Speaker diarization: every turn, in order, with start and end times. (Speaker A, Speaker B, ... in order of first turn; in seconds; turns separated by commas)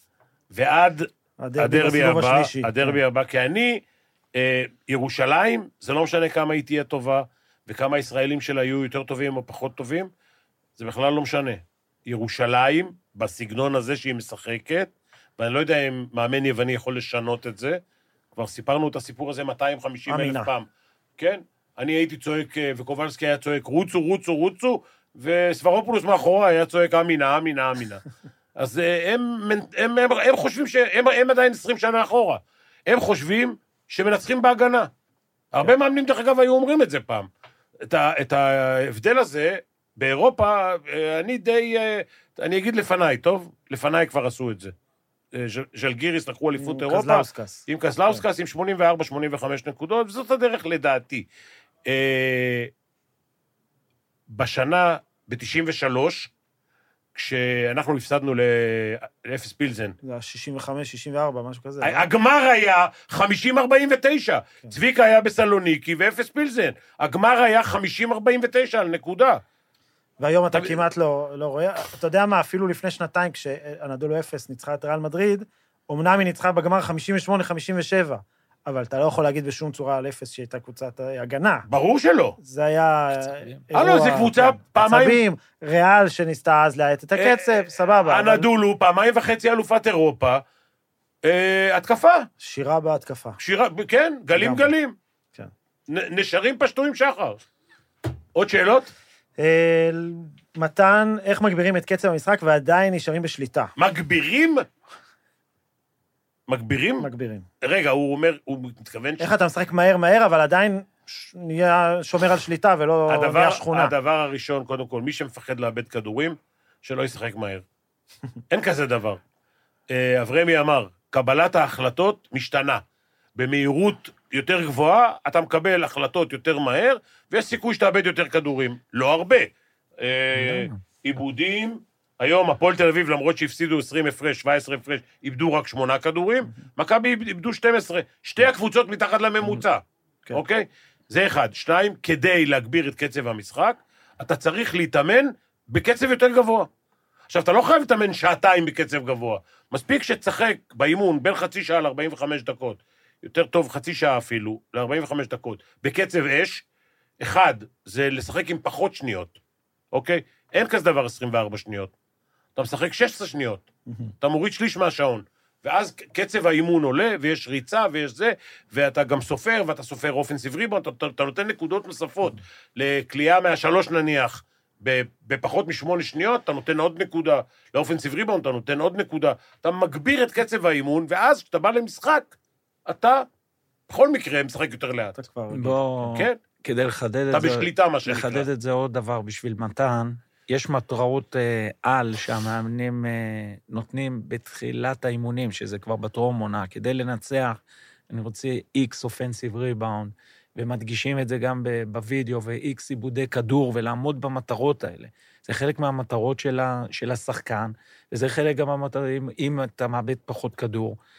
Speaker A: 0.5-3.8, Speaker B: 1.4-3.0, Speaker A: 4.3-10.1, Speaker A: 10.8-17.8, Speaker A: 18.4-20.6, Speaker B: 20.1-20.5, Speaker A: 21.2-28.0, Speaker A: 28.6-34.9, Speaker A: 35.5-37.3, Speaker A: 37.8-44.7, Speaker A: 45.3-51.2, Speaker B: 46.6-48.2, Speaker A: 51.8-52.7, Speaker A: 54.3-56.3, Speaker A: 57.1-60.0, Speaker B: 60.0-62.1, Speaker A: 61.8-69.4, Speaker B: 70.2-81.7, Speaker A: 70.5-70.8, Speaker A: 81.7-82.4, Speaker B: 82.4-88.5, Speaker C: 83.3-83.7, Speaker A: 83.7-85.2, Speaker A: 87.2-90.4, Speaker A: 91.2-92.3, Speaker B: 92.4-93.4, Speaker A: 93.4-94.9, Speaker B: 94.3-94.7, Speaker A: 95.9-97.4, Speaker A: 98.3-98.9, Speaker B: 99.4-103.7, Speaker A: 103.8-104.6, Speaker A: 106.5-107.1, Speaker B: 107.0-107.5, Speaker A: 107.6-109.3, Speaker B: 109.2-113.9, Speaker A: 113.1-117.6, Speaker A: 118.5-119.2, Speaker A: 119.9-122.8, Speaker A: 123.3-146.7, Speaker C: 130.3-130.8, Speaker A: 147.3-156.6, Speaker A: 157.2-159.4, Speaker A: 159.9-161.9, Speaker A: 162.6-163.6, Speaker A: 164.2-182.3, Speaker A: 182.8-183.2, Speaker A: 183.9-185.2, Speaker B: 185.2-185.8, Speaker C: 185.5-197.6, Speaker A: 186.0-186.4, Speaker A: 187.3-188.4, Speaker C: 198.1-211.0